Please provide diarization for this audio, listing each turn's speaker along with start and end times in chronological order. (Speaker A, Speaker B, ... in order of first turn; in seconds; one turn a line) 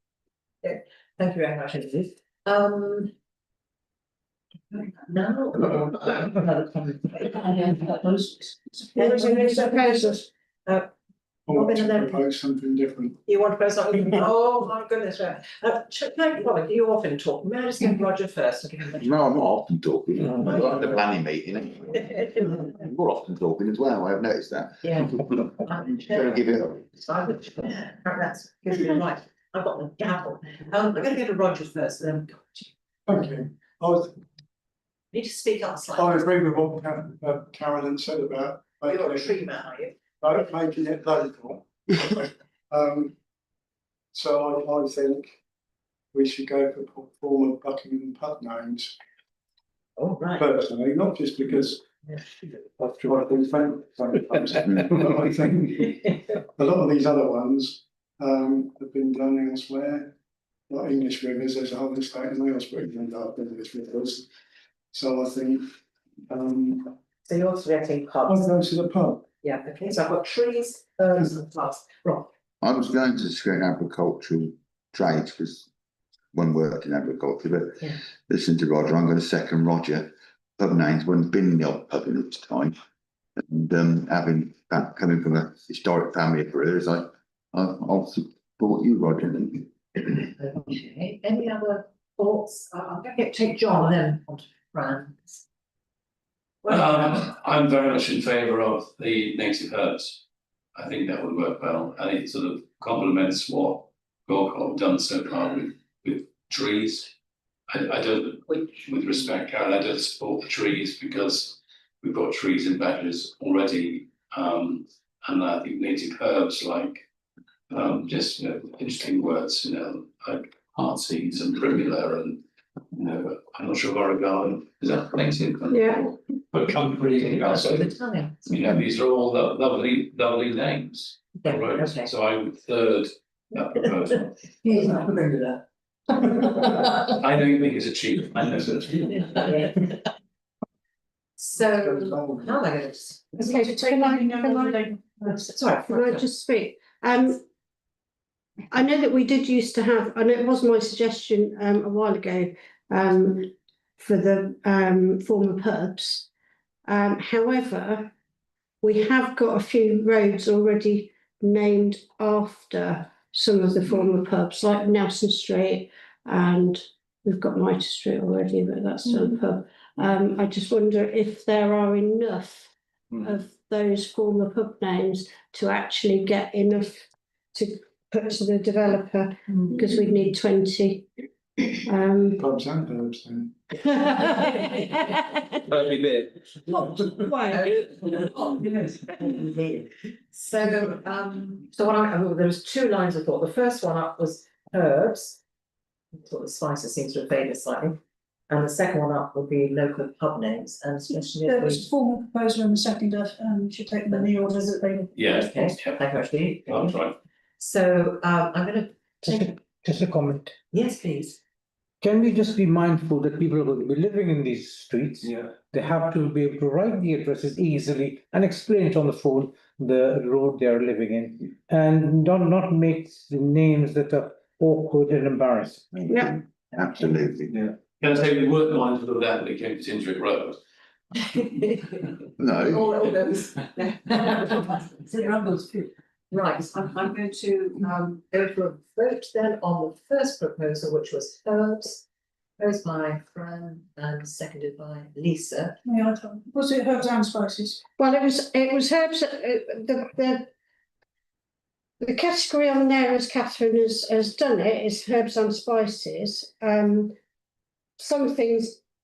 Speaker A: 0.6-3.1
Speaker A: 4.8-8.2
Speaker B: 8.0-10.1
Speaker C: 8.9-10.3
Speaker A: 9.0-9.2
Speaker A: 10.7-10.9
Speaker D: 11.5-13.2
Speaker A: 11.5-12.2
Speaker A: 13.3-19.2
Speaker E: 19.0-26.9
Speaker A: 20.4-20.9
Speaker A: 22.1-22.5
Speaker A: 24.8-26.4
Speaker A: 26.9-32.7
Speaker D: 33.0-34.2
Speaker A: 35.1-36.1
Speaker D: 36.0-39.5
Speaker A: 38.9-40.0
Speaker D: 40.2-43.1
Speaker D: 44.1-45.4
Speaker D: 46.1-48.9
Speaker A: 50.0-50.4
Speaker D: 50.4-51.8
Speaker D: 52.8-60.1
Speaker D: 60.7-64.2
Speaker D: 64.9-65.7
Speaker D: 66.3-66.9
Speaker A: 67.2-68.4
Speaker D: 68.2-69.2
Speaker A: 69.4-72.3
Speaker E: 72.6-75.7
Speaker E: 76.3-82.7
Speaker E: 83.4-89.7
Speaker A: 90.4-95.4
Speaker A: 96.6-97.0
Speaker F: 96.7-100.2
Speaker F: 100.8-107.1
Speaker F: 107.7-117.0
Speaker F: 117.7-122.4
Speaker F: 122.9-127.9
Speaker C: 125.7-126.1
Speaker A: 127.3-128.6
Speaker F: 128.4-134.4
Speaker A: 131.4-132.1
Speaker A: 134.6-135.6
Speaker F: 136.6-139.5
Speaker A: 139.1-140.0
Speaker A: 141.4-143.3
Speaker D: 141.6-142.6
Speaker C: 143.4-144.8
Speaker B: 143.4-145.4
Speaker A: 145.3-146.2
Speaker C: 145.8-147.4
Speaker C: 148.7-156.3
Speaker C: 156.9-158.1
Speaker C: 158.8-181.1
Speaker C: 181.8-182.4
Speaker D: 182.4-183.5
Speaker C: 183.8-185.5
Speaker F: 185.6-186.9
Speaker C: 186.7-187.7
Speaker A: 187.5-195.4
Speaker A: 196.1-198.0
Speaker A: 198.5-201.8
Speaker B: 201.1-205.1
Speaker A: 204.1-207.0
Speaker F: 205.1-206.0
Speaker F: 206.7-207.1
Speaker A: 207.6-209.5
Speaker G: 209.2-210.5
Speaker A: 210.7-211.4
Speaker G: 212.0-226.0
Speaker F: 215.2-215.5
Speaker E: 226.0-227.5
Speaker C: 226.1-226.4
Speaker F: 227.5-230.6
Speaker A: 231.2-235.4
Speaker E: 232.4-232.9
Speaker A: 236.3-242.0
Speaker A: 242.6-245.8
Speaker B: 245.8-247.8
Speaker C: 248.0-250.5
Speaker C: 252.0-257.1
Speaker C: 258.0-258.8